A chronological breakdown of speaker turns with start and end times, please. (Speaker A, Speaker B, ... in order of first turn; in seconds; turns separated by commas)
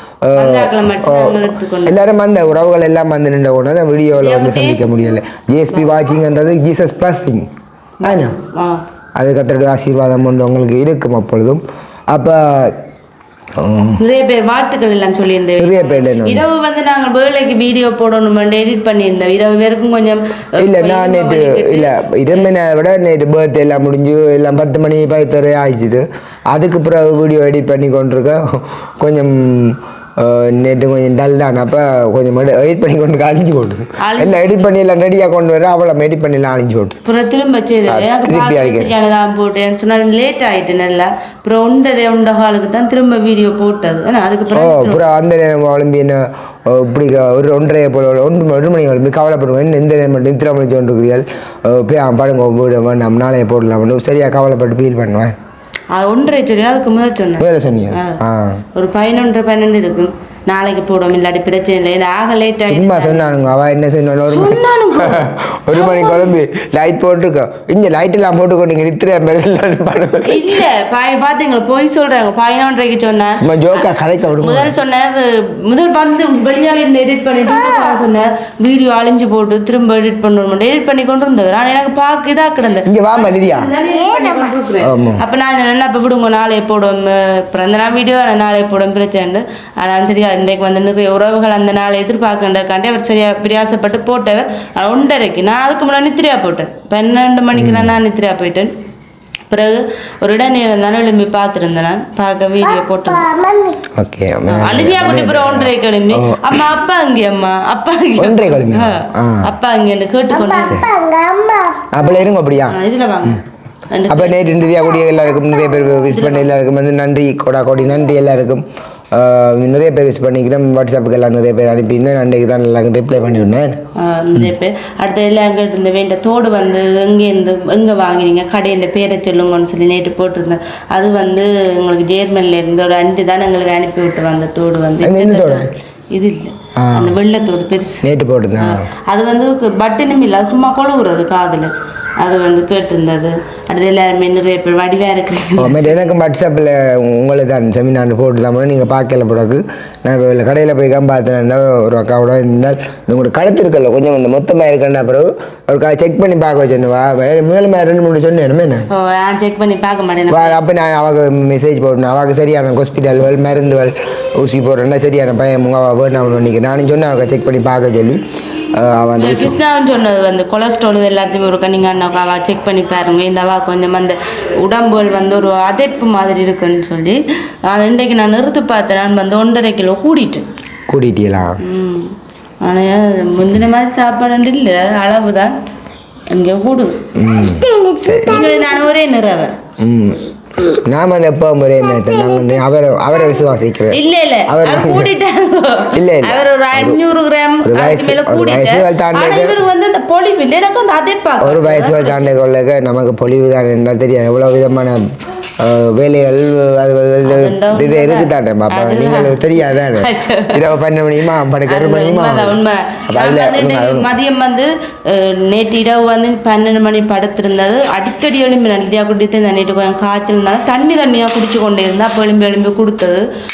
Speaker A: 0.2-7.5, Speaker B: 0.3-2.0, Speaker B: 4.2-4.8, Speaker A: 8.0-8.4, Speaker B: 8.0-8.8, Speaker A: 9.2-12.8, Speaker A: 13.6-14.0, Speaker B: 14.0-22.4, Speaker A: 15.6-16.5, Speaker A: 20.6-37.0, Speaker B: 34.0-34.7, Speaker B: 37.0-45.0, Speaker A: 37.9-38.9, Speaker A: 44.5-55.4, Speaker B: 55.9-58.2, Speaker A: 57.4-58.6, Speaker B: 58.7-63.5, Speaker A: 62.7-70.6, Speaker B: 64.3-66.3, Speaker B: 70.2-73.9, Speaker A: 73.4-74.7, Speaker B: 74.4-98.7, Speaker C: 77.6-77.9, Speaker A: 82.9-83.7, Speaker C: 83.9-84.5, Speaker A: 84.8-85.2, Speaker A: 97.6-97.9, Speaker B: 99.5-103.2, Speaker C: 102.6-103.9, Speaker A: 103.9-106.6, Speaker B: 104.5-110.8, Speaker A: 108.2-109.5, Speaker C: 110.3-112.3, Speaker A: 111.9-113.4, Speaker B: 112.7-114.5, Speaker A: 114.1-123.8, Speaker C: 115.4-115.9, Speaker B: 116.1-116.5, Speaker B: 124.0-138.1, Speaker A: 135.0-135.7, Speaker A: 136.8-137.2, Speaker A: 138.0-138.9, Speaker B: 138.6-146.0, Speaker A: 145.6-158.9, Speaker B: 158.9-160.6, Speaker A: 160.3-168.2, Speaker A: 168.7-169.6, Speaker B: 169.2-180.5, Speaker A: 180.9-181.6, Speaker B: 181.6-185.6, Speaker B: 186.3-187.0, Speaker A: 187.2-188.5, Speaker C: 187.4-188.9, Speaker B: 188.3-189.6, Speaker A: 189.8-190.3, Speaker A: 190.8-195.1, Speaker C: 191.9-193.4, Speaker B: 193.9-202.3, Speaker A: 195.9-197.0, Speaker A: 197.6-199.6, Speaker A: 201.4-205.0, Speaker A: 205.6-214.1, Speaker B: 207.2-210.6, Speaker B: 211.7-223.2